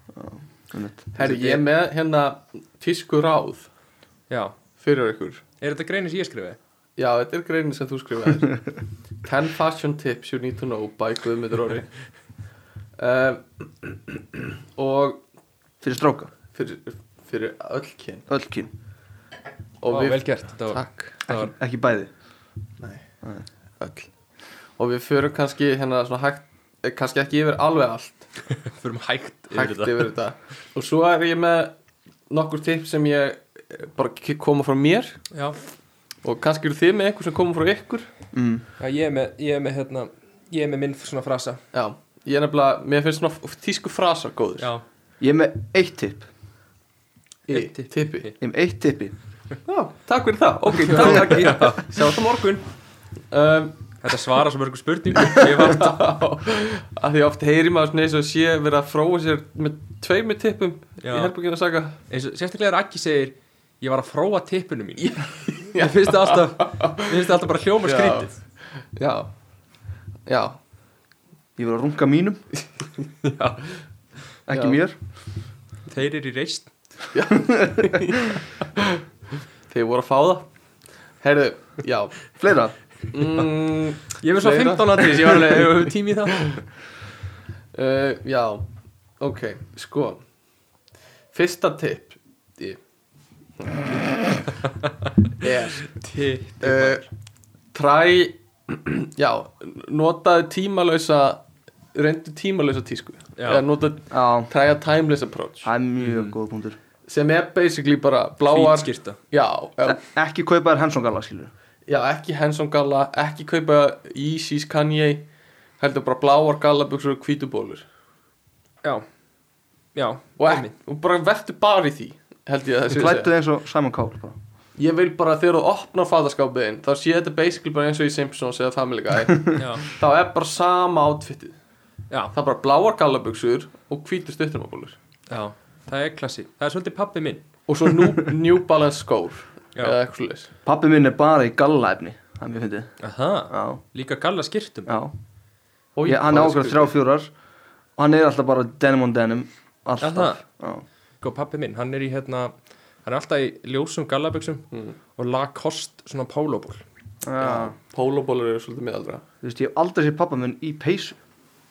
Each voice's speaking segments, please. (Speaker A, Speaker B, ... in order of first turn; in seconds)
Speaker A: 0.1-1.6, 15.8-16.3, 18.3-18.7, 21.3-22.1, 38.3-38.6, 45.2-46.3, 48.4-49.1, 71.6-72.4, 74.5-75.0, 77.5-77.8, 82.4-82.8, 104.1-104.5, 105.7-106.8, 109.8-111.5, 122.9-124.4, 140.7-142.9, 143.5-143.8, 144.9-145.1, 146.1-147.3, 148.0-150.8, 157.2-157.8, 159.4-161.2
Speaker B: 1.1-3.7, 4.8-5.4, 7.0-11.9, 13.0-15.2, 16.5-18.3, 19.8-21.2, 23.8-24.1, 24.8-28.2, 29.5-31.7, 32.3-35.2, 36.2-38.1, 41.7-44.7, 47.5-48.3, 49.7-52.7, 53.3-53.8, 55.2-62.0, 65.0-67.0, 67.9-69.3, 70.3-70.6, 74.5-74.8, 77.1-79.0, 79.7-80.5, 81.2-82.2, 83.1-85.7, 87.7-88.7, 89.2-90.2, 91.3-92.8, 93.6-94.4, 95.4-96.0, 96.6-97.0, 97.7-101.4, 101.9-105.7, 107.1-110.0, 111.9-115.3, 115.8-117.8, 120.4-123.3, 124.8-131.6, 132.3-135.0, 137.7-140.5, 146.0-146.9, 157.4-159.2
Speaker C: 4.3-4.5, 5.6-6.6, 19.9-21.5, 28.6-30.1, 35.3-35.6, 38.8-41.6, 47.5-48.4, 50.8-51.9, 54.0-56.0, 61.0-61.3, 62.1-68.3, 73.2-73.7, 75.9-76.7, 84.2-86.6, 95.9-97.0, 103.4-103.6, 106.0-106.3, 108.5-109.2, 120.0-120.7, 129.6-129.8, 135.3-137.4, 143.0-144.9, 150.0-150.4, 151.2-152.5, 153.0-156.8